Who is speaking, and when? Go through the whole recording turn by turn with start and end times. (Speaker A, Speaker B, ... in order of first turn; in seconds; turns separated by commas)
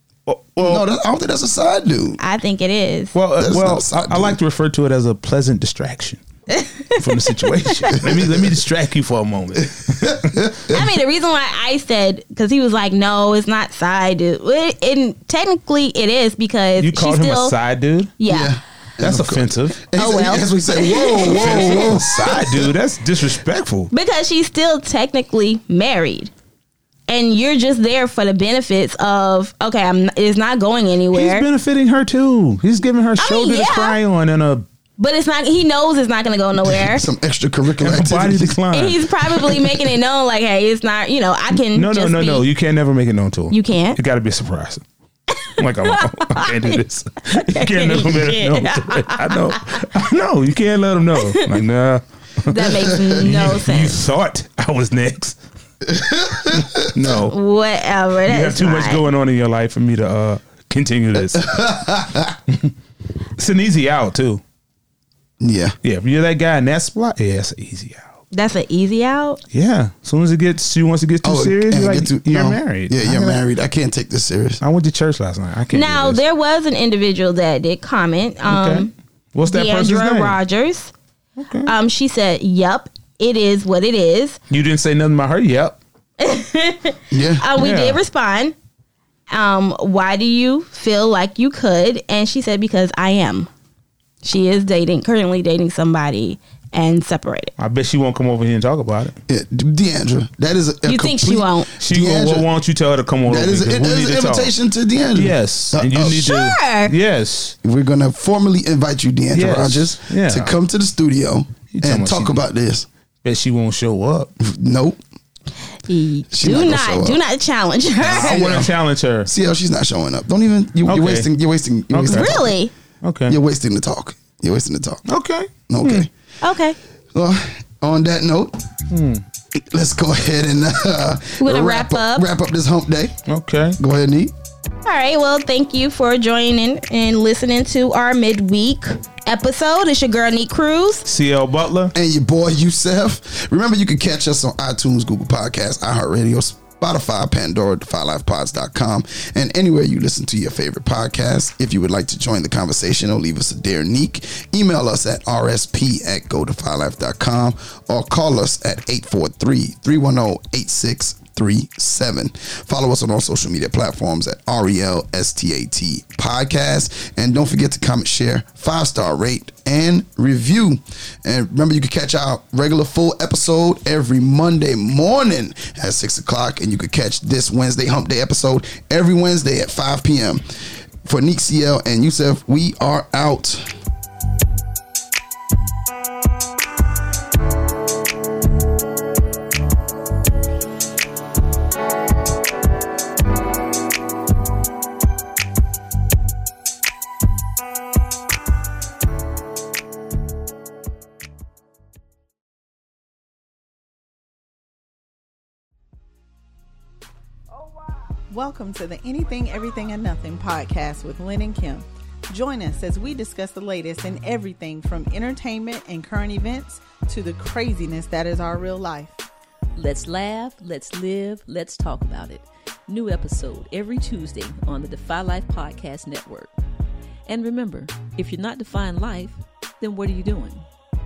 Speaker A: 0.3-0.8, Speaker B: 0.6-2.2, Speaker C: 2.2-3.1, Speaker A: 3.1-6.2, Speaker B: 3.4-4.4, Speaker C: 6.5-8.0, Speaker A: 7.0-10.4, Speaker B: 7.9-8.5, Speaker B: 9.6-10.9, Speaker C: 10.7-17.6, Speaker A: 16.8-18.1, Speaker C: 18.2-18.5, Speaker B: 18.3-22.7, Speaker A: 19.0-19.8, Speaker C: 20.0-22.4, Speaker A: 21.3-23.9, Speaker C: 23.9-26.3, Speaker C: 27.1-31.5, Speaker A: 31.1-34.6, Speaker C: 33.2-34.0, Speaker C: 35.0-37.1, Speaker B: 36.6-38.6, Speaker A: 37.8-39.1, Speaker C: 38.7-42.5, Speaker A: 41.7-44.8, Speaker C: 43.5-44.0, Speaker C: 45.5-49.8, Speaker A: 45.6-55.4, Speaker C: 51.2-51.5, Speaker C: 52.5-54.0, Speaker B: 55.9-57.0, Speaker A: 56.5-57.4, Speaker C: 57.3-59.0, Speaker A: 58.3-61.5, Speaker B: 61.3-62.4, Speaker A: 63.4-64.4, Speaker B: 65.4-65.8, Speaker A: 65.8-68.1, Speaker C: 68.3-69.4, Speaker A: 69.5-73.4, Speaker B: 71.2-74.6, Speaker A: 74.6-76.2, Speaker C: 75.7-78.9, Speaker A: 78.5-80.4, Speaker C: 79.5-80.9, Speaker A: 81.4-81.7, Speaker C: 81.7-84.4, Speaker A: 84.5-85.8, Speaker C: 86.2-88.5, Speaker B: 87.1-87.5, Speaker A: 87.6-88.0, Speaker C: 89.3-93.5, Speaker C: 94.2-97.5, Speaker A: 97.6-99.2, Speaker B: 99.3-102.5, Speaker C: 100.9-101.7, Speaker A: 101.8-104.5, Speaker B: 103.3-106.2, Speaker A: 105.2-107.6, Speaker C: 106.1-106.9, Speaker B: 107.6-112.9, Speaker A: 109.3-110.5, Speaker A: 111.7-112.4, Speaker A: 113.2-114.3, Speaker B: 114.4-115.0, Speaker C: 115.9-118.4, Speaker B: 116.3-117.2, Speaker B: 118.0-122.5, Speaker A: 118.0-119.3, Speaker A: 120.9-121.3, Speaker A: 121.9-122.4, Speaker C: 122.1-122.7, Speaker A: 123.0-123.4, Speaker B: 123.3-125.0, Speaker A: 125.1-126.1, Speaker B: 125.7-126.1, Speaker C: 126.4-126.8, Speaker B: 127.1-128.6, Speaker A: 128.9-129.2, Speaker B: 129.6-133.2, Speaker C: 131.4-132.3, Speaker A: 133.3-133.8, Speaker B: 133.8-134.3, Speaker C: 134.8-141.1, Speaker A: 141.1-141.9, Speaker B: 141.9-183.7, Speaker D: 208.3-219.2, Speaker E: 219.8-226.5, Speaker E: 227.3-230.7